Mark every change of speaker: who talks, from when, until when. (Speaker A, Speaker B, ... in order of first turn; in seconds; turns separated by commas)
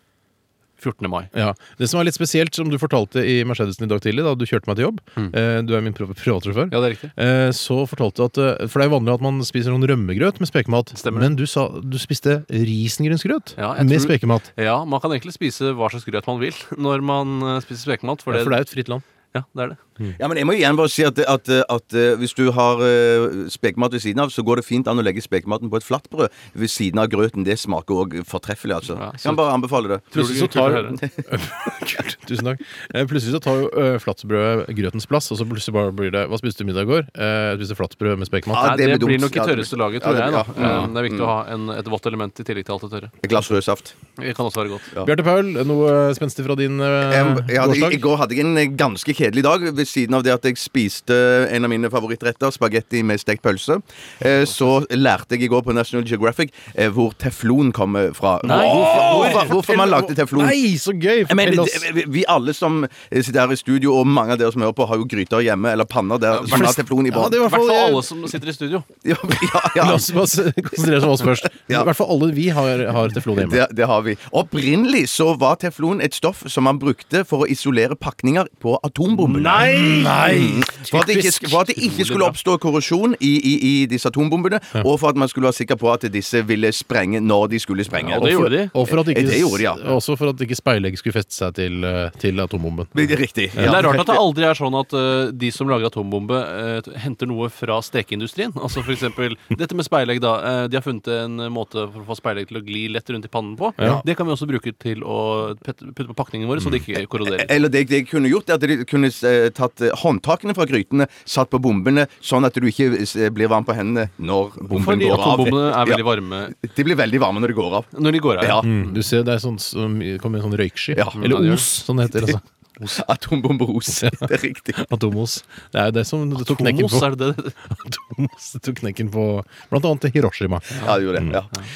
Speaker A: 0.8-1.3, Speaker B: 1.3-14.5, Speaker A: 6.7-7.1, Speaker A: 10.9-11.3, Speaker A: 13.6-18.6, Speaker B: 18.3-19.0, Speaker A: 19.3-19.8, Speaker C: 20.2-30.1, Speaker A: 28.9-29.4, Speaker A: 30.1-31.0, Speaker B: 30.1-38.7, Speaker C: 30.7-31.3, Speaker C: 38.5-41.3, Speaker A: 38.5-43.1, Speaker B: 40.6-40.9, Speaker C: 43.2-43.9, Speaker A: 44.2-44.9, Speaker B: 45.0-48.0, Speaker C: 47.0-60.6, Speaker A: 58.4-59.6, Speaker B: 58.4-61.9, Speaker C: 61.2-67.4, Speaker A: 66.3-68.9, Speaker B: 66.5-68.0, Speaker C: 69.0-70.2, Speaker B: 69.7-73.6, Speaker C: 73.3-89.9, Speaker A: 79.3-80.2, Speaker B: 79.3-82.2, Speaker A: 88.1-88.7, Speaker B: 88.1-93.0, Speaker C: 92.9-94.2, Speaker B: 93.5-94.1, Speaker A: 93.6-107.5, Speaker C: 107.2-116.0, Speaker A: 114.7-116.6, Speaker C: 116.6-118.7, Speaker A: 117.9-119.0, Speaker B: 118.6-122.4, Speaker C: 120.9-121.2, Speaker A: 121.1-121.7, Speaker C: 122.9-124.8, Speaker B: 124.0-124.2, Speaker B: 124.8-127.1, Speaker A: 126.4-127.6, Speaker B: 127.7-131.4, Speaker C: 130.8-131.5